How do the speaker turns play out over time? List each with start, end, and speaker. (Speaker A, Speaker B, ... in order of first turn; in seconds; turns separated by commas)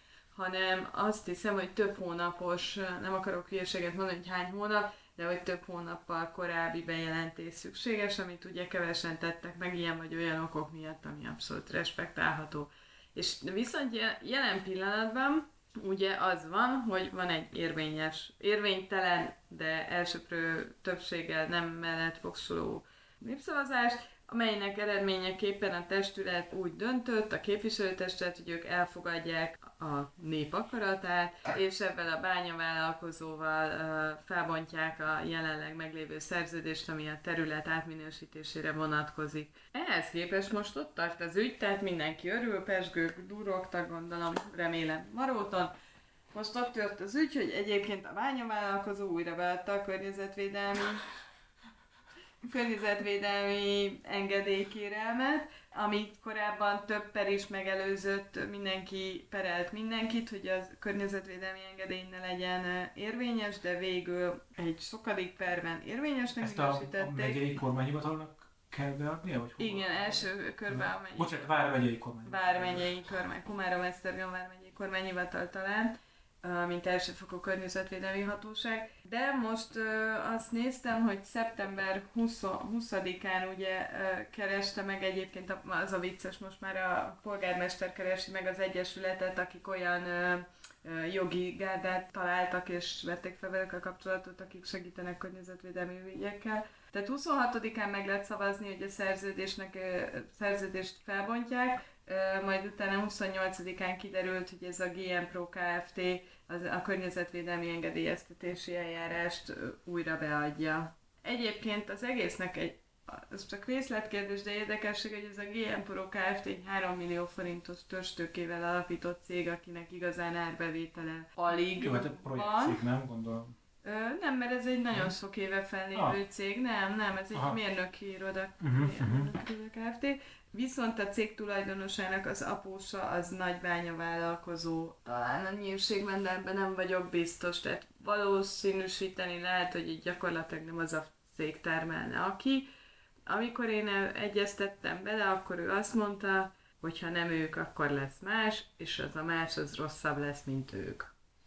Speaker A: 0.3-45.7, Speaker A: 46.3-51.1, Speaker A: 52.4-67.5, Speaker B: 66.4-72.8, Speaker A: 69.6-71.4, Speaker A: 72.2-122.8, Speaker B: 121.8-123.5, Speaker A: 123.8-142.7, Speaker B: 127.3-127.6, Speaker B: 128.6-129.3, Speaker A: 143.3-151.1